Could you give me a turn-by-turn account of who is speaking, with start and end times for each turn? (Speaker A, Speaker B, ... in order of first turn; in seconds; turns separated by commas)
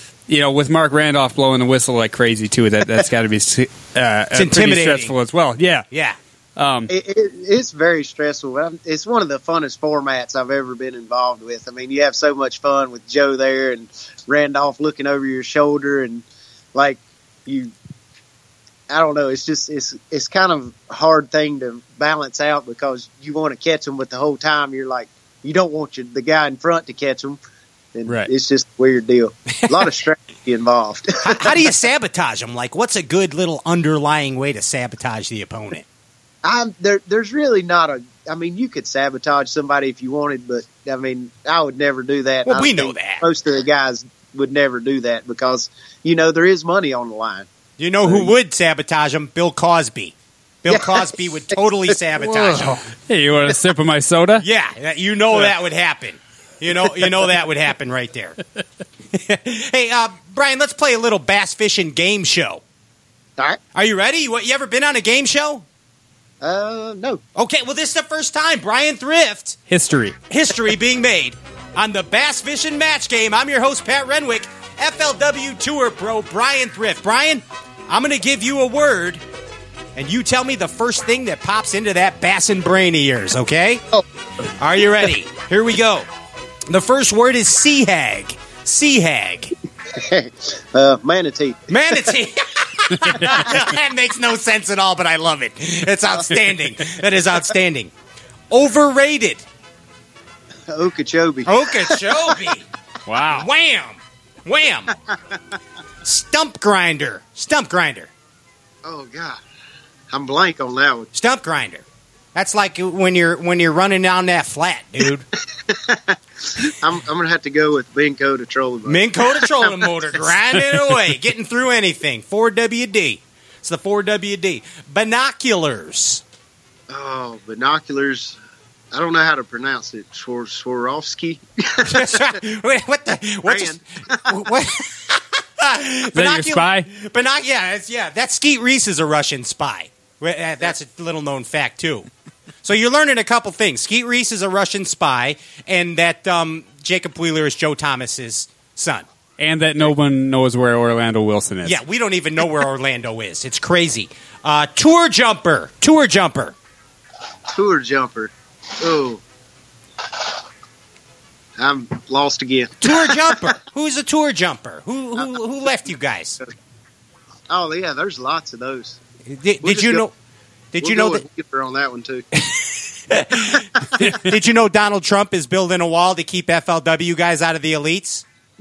Speaker A: 0.3-5.9, Speaker B: 4.3-5.1, Speaker B: 5.9-6.2, Speaker A: 6.6-6.9, Speaker C: 6.9-17.7, Speaker C: 18.9-27.4, Speaker C: 27.9-31.5, Speaker B: 31.2-35.9, Speaker C: 36.4-47.5, Speaker B: 42.5-43.2, Speaker B: 47.8-52.8, Speaker C: 48.1-48.3, Speaker C: 50.7-51.1, Speaker A: 52.2-54.5, Speaker B: 54.4-58.4, Speaker B: 59.1-62.6, Speaker B: 63.7-65.7, Speaker C: 66.4-67.2, Speaker B: 67.4-69.6, Speaker A: 69.7-70.2, Speaker B: 70.3-79.2, Speaker B: 80.0-83.8, Speaker B: 84.6-86.1, Speaker B: 86.7-89.5, Speaker C: 89.9-91.8, Speaker B: 91.7-97.9, Speaker A: 93.0-93.5, Speaker B: 98.5-99.5, Speaker C: 100.7-102.3, Speaker B: 101.5-102.7, Speaker A: 103.1-103.5, Speaker B: 103.3-104.9, Speaker B: 106.0-108.1, Speaker C: 108.8-109.4, Speaker C: 110.1-111.1, Speaker B: 111.1-115.3, Speaker C: 115.5-120.2, Speaker B: 118.9-126.2, Speaker C: 126.9-128.4, Speaker C: 128.9-132.4, Speaker B: 131.9-142.1, Speaker C: 133.4-134.3, Speaker A: 136.1-136.9, Speaker B: 142.6-149.1, Speaker A: 149.4-151.8, Speaker B: 151.7-156.6, Speaker C: 157.5-159.2, Speaker C: 161.6-163.5, Speaker B: 162.8-166.4, Speaker C: 167.5-169.0, Speaker B: 169.3-170.1, Speaker C: 169.6-170.1, Speaker B: 170.7-171.2, Speaker C: 170.8-172.2, Speaker B: 172.4-178.2, Speaker C: 173.8-174.2